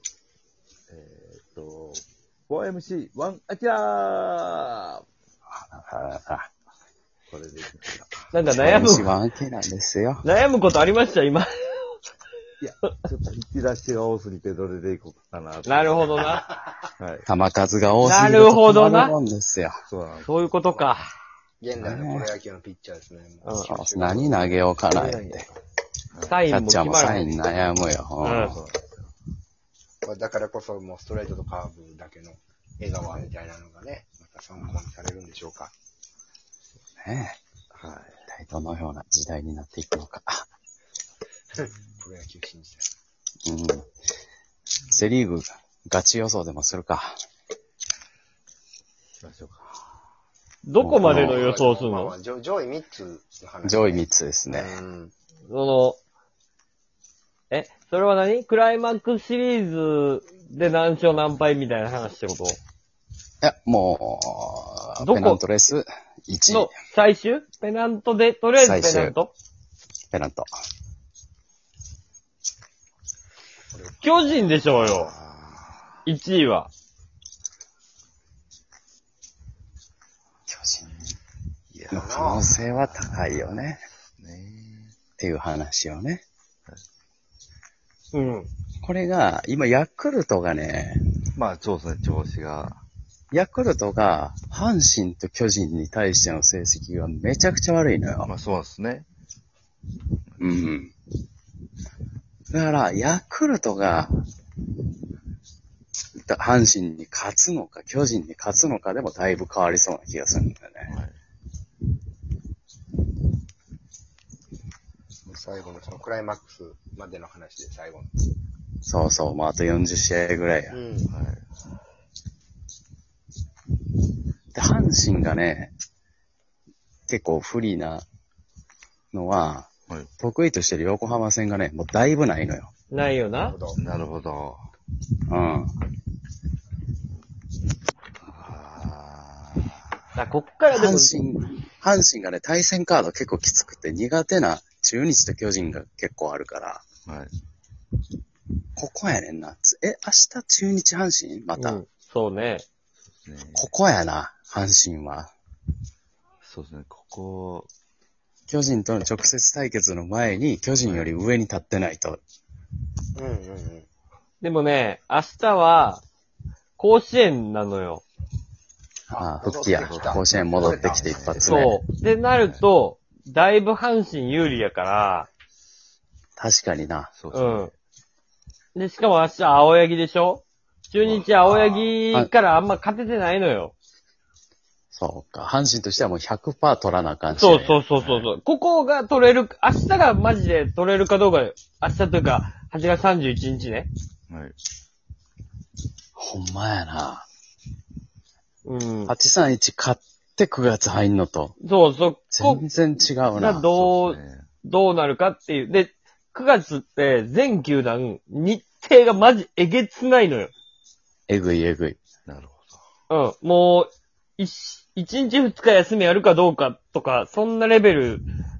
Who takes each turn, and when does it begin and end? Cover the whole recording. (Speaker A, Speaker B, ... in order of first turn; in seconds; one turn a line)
Speaker A: 0.9-5.0
Speaker B: 5.5-6.5
Speaker A: 7.3-8.2
Speaker C: 8.3-9.1
Speaker B: 8.5-10.2
Speaker C: 10.2-12.0
Speaker A: 12.6-16.3
Speaker C: 15.7-16.4
Speaker A: 17.0-17.3
Speaker B: 17.2-19.8
Speaker C: 18.0-19.1
Speaker A: 19.9-20.3
Speaker C: 20.2-21.1
Speaker D: 21.6-24.6
Speaker B: 21.8-22.3
Speaker C: 23.4-23.7
Speaker B: 23.6-25.5
Speaker C: 24.9-25.4
Speaker A: 26.1-26.4
Speaker C: 26.3-27.3
Speaker B: 26.5-28.6
Speaker C: 28.2-28.6
Speaker A: 28.3-28.8
Speaker D: 30.0-35.7
Speaker B: 37.0-37.4
Speaker A: 37.7-38.2
Speaker B: 38.3-40.5
Speaker D: 41.5-42.8
Speaker B: 43.4-43.9
Speaker B: 44.9-47.1
Speaker A: 49.2-49.7
Speaker C: 50.6-52.1
Speaker B: 50.8-51.5
Speaker D: 51.0-55.1
Speaker B: 53.6-54.8
Speaker C: 55.5-56.0
Speaker C: 57.5-62.6
Speaker B: 63.4-66.7
Speaker C: 65.0-65.4
Speaker C: 66.5-69.3
Speaker B: 68.6-69.2
Speaker B: 70.1-70.5
Speaker D: 73.7-74.0
Speaker C: 74.0-75.1
Speaker A: 74.7-76.0
Speaker C: 76.0-76.7
Speaker B: 80.5-81.1
Speaker A: 81.7-84.9
Speaker B: 81.9-83.8
Speaker D: 81.9-82.5
Speaker B: 85.2-86.2
Speaker C: 88.1-88.5
Speaker B: 88.8-91.0
Speaker A: 91.3-92.8
Speaker B: 93.3-98.3
Speaker A: 98.2-99.1
Speaker B: 100.4-100.9
Speaker B: 102.5-104.2
Speaker B: 106.1-110.9
Speaker A: 110.8-111.2
Speaker D: 115.2-118.2
Speaker B: 118.8-120.8
Speaker D: 120.7-121.1
Speaker A: 121.1-121.4
Speaker B: 124.5-125.7
Speaker B: 127.1-128.0
Speaker B: 129.1-132.7
Speaker C: 132.9-133.6
Speaker D: 133.3-133.8
Speaker A: 133.8-134.7
Speaker B: 135.3-135.7
Speaker A: 138.2-139.8
Speaker C: 140.2-141.1
Speaker B: 140.7-146.8
Speaker A: 147.1-147.3
Speaker B: 148.8-151.8
Speaker C: 151.6-152.6
Speaker A: 153.1-153.7
Speaker B: 153.6-155.3
Speaker A: 156.4-157.7
Speaker B: 158.5-162.2
Speaker A: 160.8-161.1
Speaker D: 163.1-163.8
Speaker C: 164.4-166.0
Speaker C: 166.8-168.0
Speaker D: 169.1-171.1
Speaker B: 169.1-171.8
Speaker A: 169.8-171.5
Speaker C: 171.4-175.3
Speaker B: 176.4-177.1
Speaker A: 177.1-177.7
Speaker C: 177.3-177.7
Speaker C: 178.7-183.7
Speaker A: 181.0-181.3
Speaker B: 181.5-182.3
Speaker B: 184.9-187.8
Speaker C: 187.3-193.9
Speaker A: 187.9-188.3
Speaker A: 194.3-194.6
Speaker B: 196.2-197.2
Speaker C: 198.6-199.1
Speaker B: 199.1-201.5
Speaker C: 201.6-202.6
Speaker B: 202.3-203.7
Speaker C: 203.3-210.5
Speaker A: 203.7-204.5
Speaker B: 211.3-212.0
Speaker A: 212.2-212.8
Speaker C: 213.1-218.2